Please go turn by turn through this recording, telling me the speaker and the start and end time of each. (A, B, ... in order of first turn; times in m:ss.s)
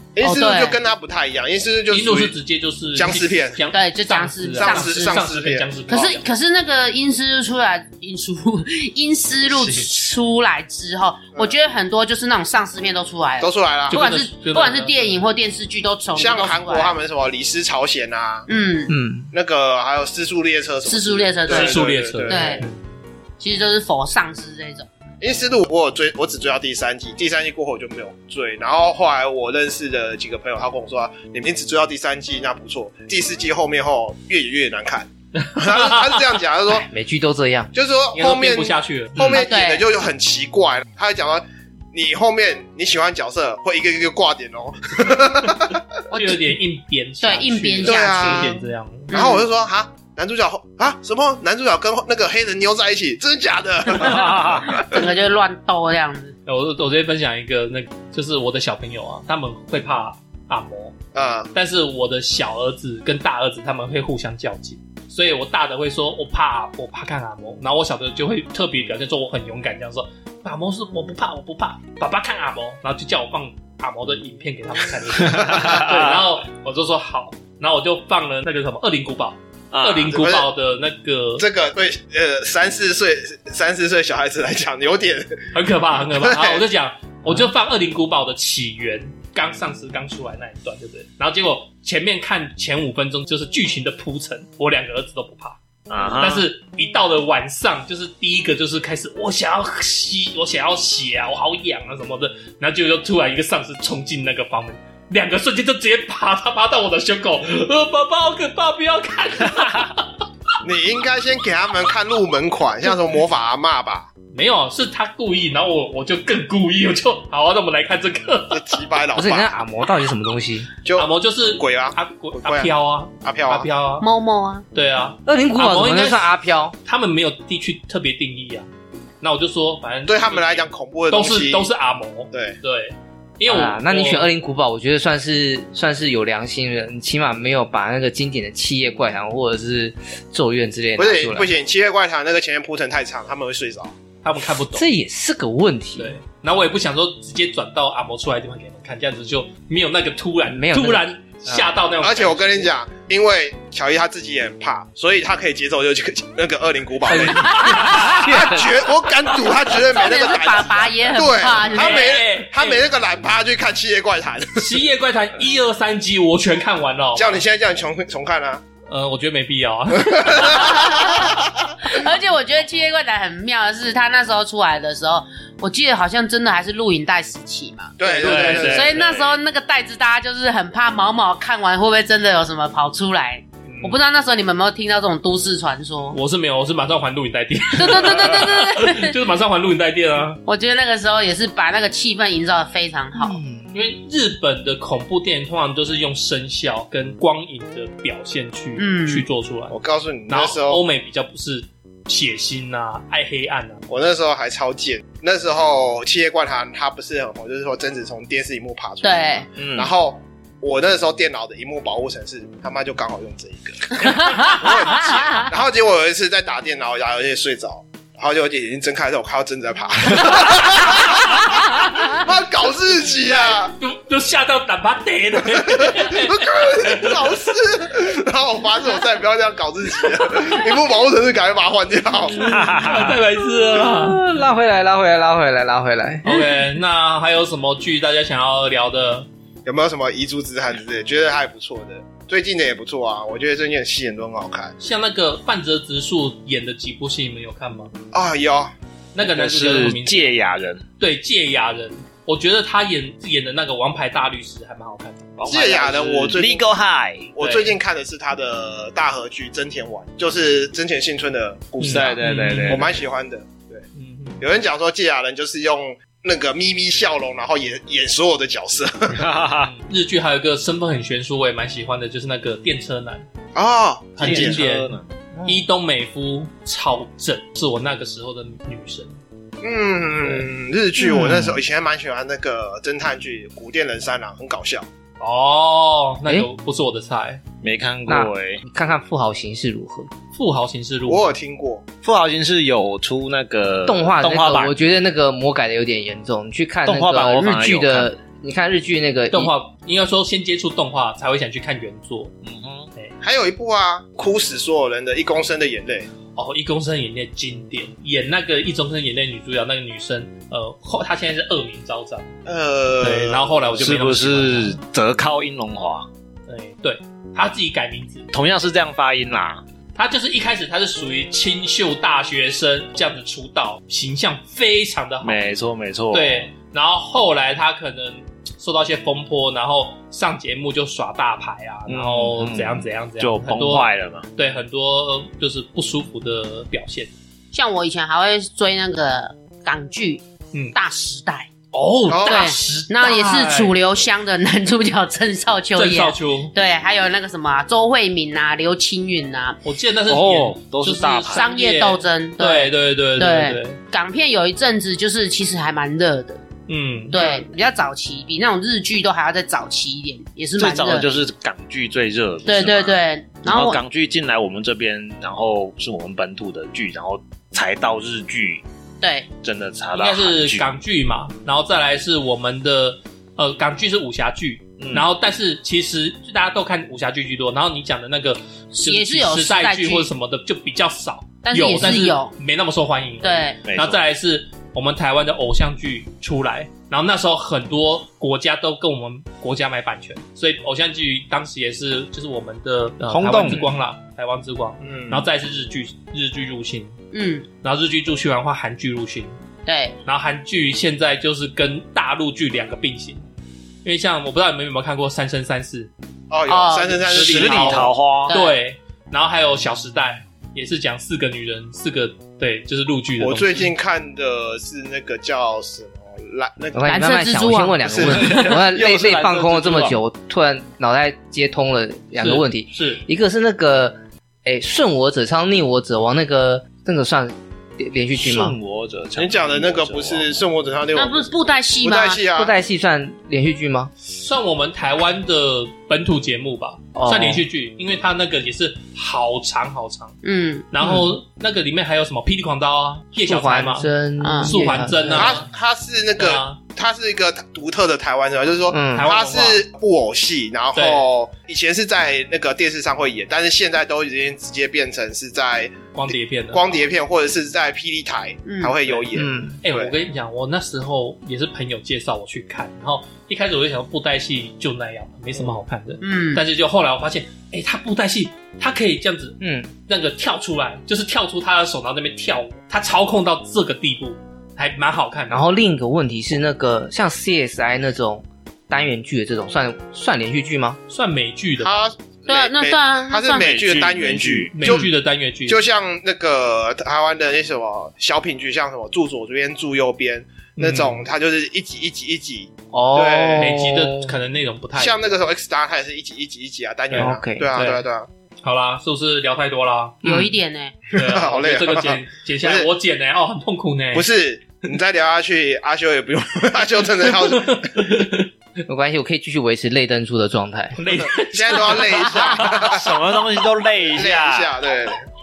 0:00.1-0:02.3 A
0:00.2-0:00.8 B
0:01.9-0:06.2 C
0:03.0-0:03.7 A
0:03.7-0:05.3 B
0:04.6-0:05.8 A
0:05.9-0:16.9 B
0:09.5-0:09.9 C
0:13.4-0:14.0 A
0:13.9-0:15.0 C
0:16.1-0:18.5 A
0:18.5-0:18.9 B
0:18.9-0:19.3 D
0:19.3-0:22.6 A
0:20.8-0:22.7 B
0:21.5-0:22.8 C
0:23.4-0:24.9 B
0:25.2-0:36.9 A
0:35.4-0:36.2 C
0:36.7-0:37.7 D
0:37.7-0:45.8 A
0:38.1-0:39.4 C
0:39.3-0:39.8 B
0:46.1-0:49.2 C
0:47.2-0:48.6 B
0:47.8-0:48.6 A
0:49.1-0:49.4 B
0:49.1-0:55.0 A
0:54.0-0:54.7 E
0:54.7-0:56.4 B
0:56.4-1:00.9 C
1:01.1-1:01.5 A
1:01.5-1:21.4 C
1:15.2-1:16.2 E
1:19.7-1:20.1 E
1:20.1-1:20.5 A
1:21.4-1:25.5 A
1:25.5-1:35.6 C
1:26.1-1:26.6 A
1:35.9-1:36.5 E
1:36.2-1:50.0 C
1:50.6-1:54.1 A
1:54.3-1:58.8 C
1:58.5-1:59.5 A
1:59.1-2:00.7 D
2:00.8-2:03.7 A
2:00.9-2:04.1 C
2:04.0-2:04.6 B
2:04.7-2:08.7 C
2:05.2-2:06.7 D
2:09.2-2:14.3 C
2:10.1-2:11.7 A
2:12.3-2:12.6 A
2:13.5-2:21.5 D
2:21.0-2:23.9 A
2:24.2-2:24.9 C
2:24.7-2:26.2 D
2:26.0-2:32.7 C
2:30.5-2:31.7 D
2:32.0-2:44.7 A
2:37.0-2:38.9 D
2:37.4-2:38.2 B
2:39.7-2:42.2 B
2:41.7-2:42.8 C
2:44.6-2:47.4 C
2:47.2-2:48.6 A
2:48.9-2:51.0 C
2:50.0-2:51.8 A
2:50.5-3:06.2 B
2:58.0-2:59.0 A
2:58.2-2:59.0 C
2:58.2-2:59.4 E
3:03.7-3:04.0 C
3:06.1-3:10.4 C
3:07.7-3:09.2 B
3:10.4-3:13.4 B
3:13.1-3:13.7 D
3:13.7-3:19.7 C
3:18.8-3:19.2 B
3:19.7-3:20.8 A
3:20.3-3:23.8 C
3:23.9-3:43.7 A
3:29.0-3:29.5 B
3:29.6-3:29.9 E
3:34.0-3:35.5 B
3:43.3-3:47.2 C
3:45.5-3:52.5 A
3:52.3-3:54.2 C
3:52.4-3:53.2 E
3:53.7-3:56.5 D
3:56.2-3:59.3 C
3:59.6-4:04.7 A
4:04.8-4:07.9 C
4:08.1-4:08.7 A
4:09.1-4:10.4 C
4:09.2-4:10.8 E
4:11.0-4:15.3 C
4:15.4-4:17.4 E
4:15.5-4:16.7 A
4:17.4-4:23.8 A
4:17.4-4:17.7 C
4:21.8-4:23.0 C
4:21.8-4:22.9 E
4:23.9-4:24.4 C
4:24.4-4:29.2 A
4:29.1-4:29.7 E
4:29.7-4:33.2 C
4:33.5-4:34.6 A
4:34.2-4:35.1 E
4:34.2-4:39.1 C
4:35.3-4:35.6 D
4:39.6-4:44.9 A
4:41.0-4:41.6 D
4:45.2-4:47.4 C
4:47.6-4:48.6 E
4:48.1-4:50.1 D
4:50.3-4:51.3 C
4:51.1-4:51.8 A
4:52.0-4:54.7 E
4:53.9-4:59.5 D
4:56.8-4:58.1 E
4:59.3-5:02.3 C
5:02.4-5:02.9 E
5:03.2-5:06.1 A
5:06.3-5:12.3 C
5:12.4-5:14.0 A
5:13.0-5:14.8 C
5:13.8-5:16.1 E
5:16.5-5:18.3 C
5:18.3-5:19.6 E
5:19.9-5:25.4 C
5:25.2-5:26.5 E
5:26.1-5:37.1 C
5:31.9-5:34.3 E
5:37.5-5:41.5 B
5:41.7-5:43.7 C
5:42.1-5:42.5 A
5:42.2-5:49.6 B
5:45.7-5:46.5 C
5:49.6-5:53.8 C
5:50.1-5:51.4 E
5:51.3-5:56.4 B
5:56.7-5:57.3 C
5:57.1-6:01.1 B
6:00.6-6:08.6 E
6:02.4-6:03.8 B
6:09.0-6:09.3 B
6:09.4-6:10.6 E
6:09.9-6:37.0 C
6:14.8-6:15.1 E
6:18.7-6:20.1 B
6:21.4-6:22.3 B
6:23.2-6:23.6 B
6:23.6-6:24.0 E
6:33.1-6:33.8 E
6:34.8-6:35.3 A
6:37.1-6:37.5 B
6:37.6-6:39.4 C
6:39.6-6:40.0 B
6:40.0-6:43.2 C
6:43.8-6:45.9 C
6:46.3-6:47.9 A
6:46.5-6:47.0 B
6:47.0-6:53.7 C
6:47.1-6:48.3 E
6:48.2-6:48.6 B
6:53.2-6:56.9 A
6:56.7-7:08.6 D
6:56.9-6:57.8 B
6:57.8-7:00.0 E
7:02.2-7:03.0 C
7:08.1-7:10.4 E
7:09.2-7:12.5 A
7:10.9-7:12.2 B
7:12.2-7:13.9 D
7:14.1-7:20.2 C
7:16.9-7:17.4 D
7:20.2-7:20.7 B
7:20.7-7:25.5 C
7:20.8-7:21.1 D
7:23.2-7:25.4 D
7:24.2-7:24.6 B
7:25.0-7:39.9 A
7:26.2-7:26.6 C
7:28.7-7:29.1 D
7:28.9-7:29.6 C
7:30.7-7:31.1 C
7:35.9-7:36.9 C
7:38.4-7:38.8 B
7:39.1-7:39.6 D
7:39.6-7:55.4 C
7:46.0-7:46.4 B
7:49.4-7:49.7 D
7:55.3-8:00.8 D
8:00.9-8:01.9 C
8:01.6-8:04.9 A
8:02.3-8:03.4 B
8:03.3-8:04.8 E
8:04.5-8:05.6 C
8:05.5-8:13.6 A
8:10.6-8:11.0 C
8:12.7-8:14.1 D
8:13.4-8:15.0 C
8:14.8-8:18.1 A
8:16.9-8:17.8 C
8:17.0-8:17.5 D
8:18.4-8:20.0 C
8:20.0-8:20.3 D
8:20.0-8:20.8 B
8:20.9-8:22.7 A
8:20.9-8:24.1 C
8:23.9-8:27.7 A
8:27.1-8:28.3 C
8:28.7-8:30.8 D
8:30.8-8:32.7 C
8:31.3-8:33.0 A
8:32.2-8:34.5 E
8:33.9-8:35.0 A